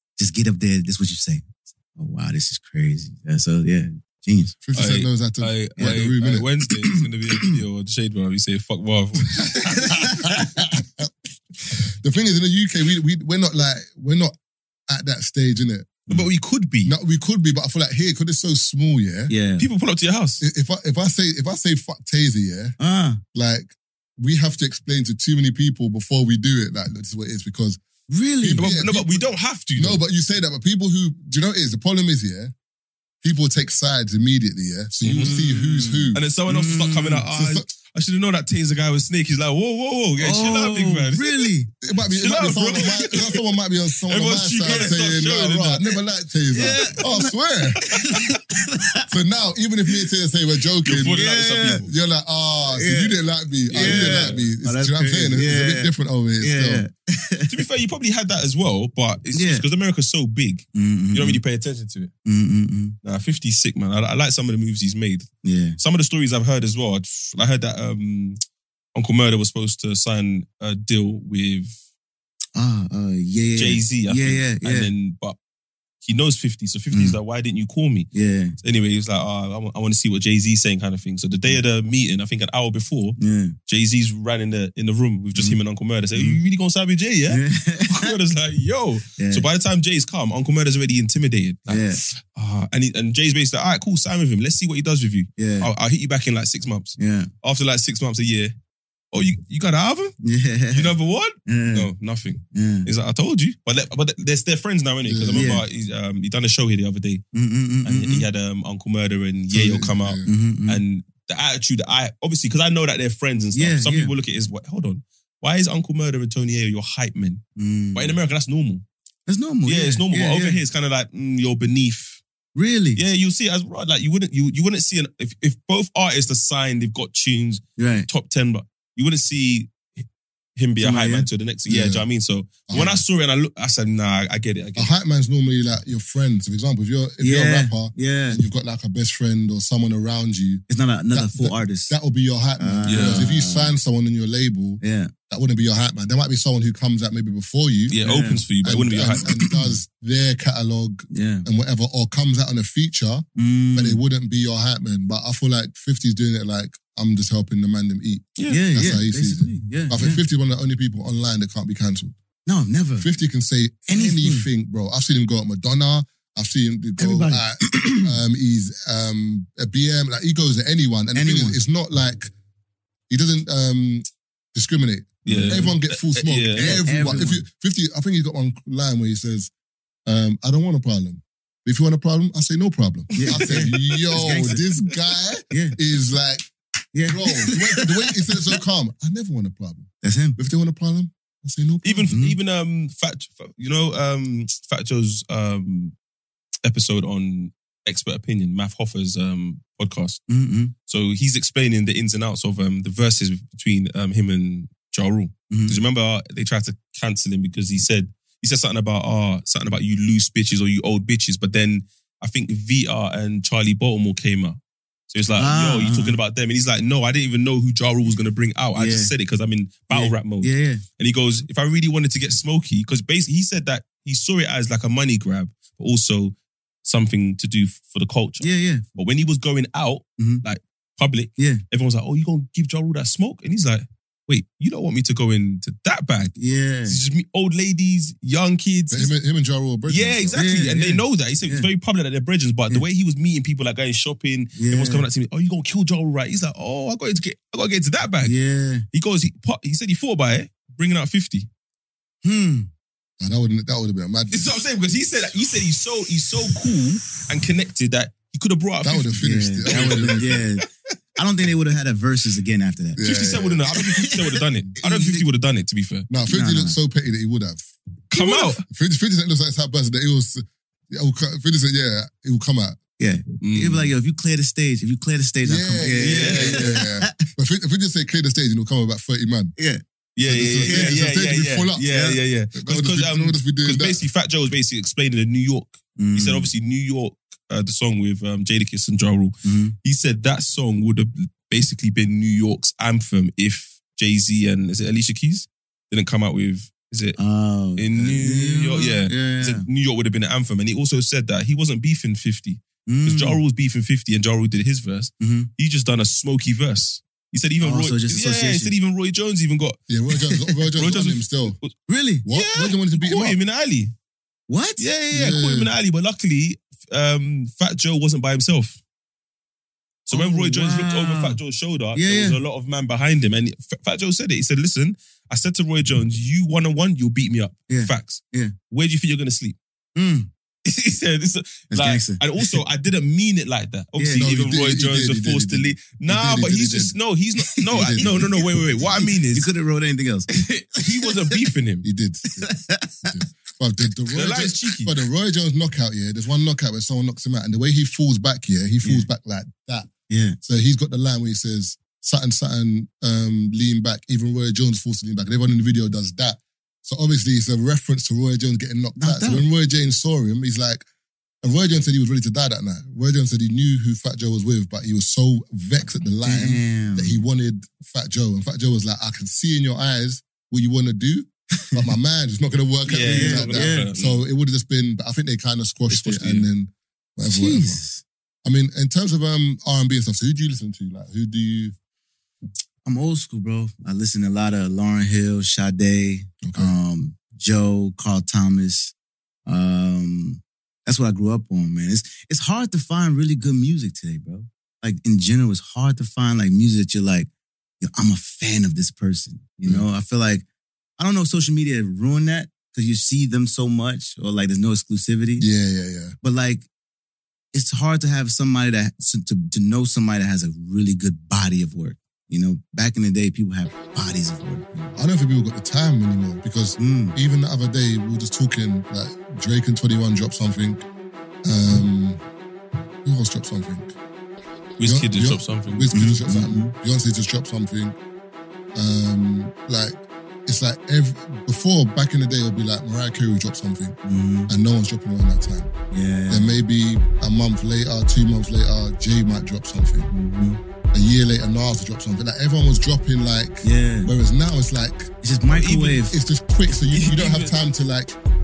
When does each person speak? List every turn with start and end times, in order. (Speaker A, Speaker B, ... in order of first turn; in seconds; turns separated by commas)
Speaker A: 0.2-4.5, Speaker B: 4.6-6.5, Speaker C: 4.7-9.8, Speaker B: 9.4-11.1, Speaker A: 9.8-10.2, Speaker B: 11.6-14.3, Speaker B: 14.9-16.1, Speaker C: 16.1-16.9, Speaker B: 16.8-19.3, Speaker A: 19.3-19.7, Speaker C: 19.6-20.4, Speaker B: 20.4-22.8, Speaker A: 22.8-23.2, Speaker B: 23.3-27.8, Speaker A: 28.1-28.7, Speaker B: 28.4-32.5, Speaker C: 28.6-30.0, Speaker B: 33.2-36.2, Speaker C: 35.0-35.4, Speaker A: 35.1-37.2, Speaker C: 36.1-41.5, Speaker B: 37.3-37.7, Speaker A: 40.2-41.7, Speaker B: 41.8-47.9, Speaker C: 42.1-43.4, Speaker C: 44.1-46.0, Speaker C: 46.5-47.0, Speaker A: 46.5-49.1, Speaker C: 47.9-48.4, Speaker B: 49.1-56.8, Speaker C: 50.9-51.9, Speaker A: 51.1-51.9, Speaker A: 52.7-53.2, Speaker C: 53.7-54.5, Speaker A: 53.7-57.5, Speaker C: 57.5-62.1, Speaker A: 59.3-59.6, Speaker A: 60.7-61.4, Speaker A: 62.2-63.0, Speaker C: 63.0-68.4, Speaker A: 65.4-65.8, Speaker C: 69.0-71.8, Speaker A: 72.5-74.9, Speaker C: 73.6-75.4, Speaker C: 76.0-78.1, Speaker A: 76.9-77.2, Speaker A: 78.1-78.6, Speaker C: 78.6-98.5, Speaker A: 83.2-83.6, Speaker A: 86.2-86.4, Speaker A: 87.3-88.1, Speaker A: 89.2-89.5, Speaker A: 91.7-92.0, Speaker A: 95.4-95.7, Speaker A: 97.0-97.3, Speaker C: 99.1-100.2, Speaker A: 100.2-100.9, Speaker C: 100.7-107.2, Speaker A: 101.5-101.9, Speaker A: 102.5-102.9, Speaker B: 105.0-105.6, Speaker A: 105.3-105.7, Speaker A: 107.3-108.3, Speaker C: 107.8-117.4, Speaker B: 109.5-110.3, Speaker A: 110.3-110.8, Speaker A: 113.5-114.1, Speaker A: 117.6-118.2, Speaker C: 118.0-118.8, Speaker A: 119.3-120.6, Speaker C: 119.7-122.2, Speaker A: 122.5-123.0, Speaker C: 123.0-129.9, Speaker A: 127.8-128.1, Speaker C: 130.6-134.9, Speaker A: 130.8-131.3, Speaker B: 131.7-132.1, Speaker B: 132.7-133.0, Speaker B: 134.8-148.0, Speaker A: 137.2-138.4, Speaker A: 140.7-142.0, Speaker A: 142.6-143.8, Speaker C: 142.9-143.3, Speaker A: 144.8-145.1, Speaker C: 147.9-149.2, Speaker A: 148.0-148.4, Speaker B: 148.6-162.1, Speaker A: 149.2-149.8, Speaker A: 151.1-151.5, Speaker A: 153.4-154.0, Speaker C: 158.4-158.6, Speaker A: 158.5-160.2, Speaker A: 162.5-163.1, Speaker B: 163.0-172.3, Speaker A: 163.9-164.5, Speaker A: 167.0-168.2, Speaker A: 171.1-171.6, Speaker B: 173.1-179.5, Speaker C: 175.2-177.3, Speaker A: 175.3-175.7, Speaker A: 176.6-177.4, Speaker B: 180.1-186.5, Speaker A: 183.1-184.7, Speaker A: 185.5-185.8, Speaker A: 186.9-188.6, Speaker B: 187.1-192.1, Speaker A: 190.0-190.4, Speaker C: 191.8-195.9, Speaker A: 192.1-192.4, Speaker C: 196.6-200.2, Speaker A: 200.3-200.7, Speaker C: 200.9-214.6, Speaker A: 205.5-205.8, Speaker C: 215.1-236.3, Speaker A: 215.4-216.2, Speaker A: 218.8-219.1, Speaker A: 219.9-220.8, Speaker A: 228.4-228.8, Speaker A: 230.2-230.4, Speaker A: 231.4-231.6, Speaker A: 236.4-237.0, Speaker C: 236.9-239.1, Speaker B: 238.9-240.4, Speaker C: 239.9-248.3, Speaker A: 240.3-241.7, Speaker A: 244.6-245.1, Speaker A: 248.2-248.8, Speaker C: 248.9-251.5, Speaker A: 252.2-252.7, Speaker B: 253.2-254.5, Speaker C: 254.3-260.7, Speaker B: 258.8-260.4, Speaker A: 259.2-263.1, Speaker B: 263.0-263.6, Speaker C: 263.0-266.1, Speaker A: 263.7-265.3, Speaker B: 266.1-272.8, Speaker A: 266.3-266.8, Speaker C: 268.1-268.6, Speaker A: 273.0-277.2, Speaker C: 273.4-273.9, Speaker B: 275.4-279.5, Speaker C: 276.0-276.7, Speaker A: 279.6-279.8, Speaker C: 280.2-297.2, Speaker B: 280.2-281.9, Speaker A: 280.6-281.0, Speaker A: 281.9-282.2, Speaker B: 282.5-284.0, Speaker A: 286.0-286.5, Speaker A: 289.4-289.8, Speaker A: 297.2-299.7, Speaker C: 297.8-309.8, Speaker A: 302.9-303.4, Speaker A: 305.2-305.5, Speaker A: 307.6-308.7, Speaker B: 309.9-311.6, Speaker C: 310.8-311.7, Speaker A: 311.9-312.2, Speaker B: 312.2-313.4, Speaker C: 312.3-313.9, Speaker A: 314.5-314.9, Speaker C: 314.8-318.8, Speaker B: 315.1-315.7, Speaker C: 320.1-329.6, Speaker A: 320.1-321.4, Speaker A: 321.9-322.4, Speaker A: 327.7-328.5, Speaker A: 330.0-330.3, Speaker C: 330.7-339.5, Speaker A: 331.7-332.6, Speaker A: 334.0-334.3, Speaker B: 334.2-337.0, Speaker A: 337.6-340.3, Speaker B: 337.7-338.4, Speaker C: 340.3-341.9, Speaker A: 340.8-341.4, Speaker B: 341.8-349.9, Speaker A: 342.4-343.2, Speaker C: 344.1-345.0, Speaker A: 350.1-350.4, Speaker B: 350.4-360.9, Speaker A: 359.0-359.4, Speaker B: 361.4-377.8, Speaker A: 366.2-367.2, Speaker C: 372.9-374.2, Speaker A: 372.9-373.9, Speaker A: 375.9-376.4, Speaker C: 376.1-376.4, Speaker A: 377.2-378.0, Speaker B: 378.4-381.8, Speaker A: 382.8-388.9, Speaker B: 386.4-386.8, Speaker A: 389.5-397.3, Speaker A: 397.8-400.4, Speaker A: 401.0-405.5, Speaker B: 405.4-406.1, Speaker A: 406.2-406.7, Speaker A: 407.5-414.9, Speaker B: 414.9-420.9, Speaker A: 416.8-417.2, Speaker B: 421.4-422.2, Speaker B: 423.0-423.9, Speaker C: 424.8-425.9, Speaker B: 424.8-428.0, Speaker A: 425.9-426.7, Speaker B: 428.8-434.0, Speaker A: 434.0-434.5, Speaker B: 434.5-435.7, Speaker A: 435.9-436.6, Speaker B: 436.3-440.1, Speaker A: 440.1-440.6, Speaker B: 440.9-445.1, Speaker A: 443.6-444.1, Speaker A: 445.2-446.1, Speaker C: 445.5-446.1, Speaker B: 446.1-448.2, Speaker C: 446.8-447.6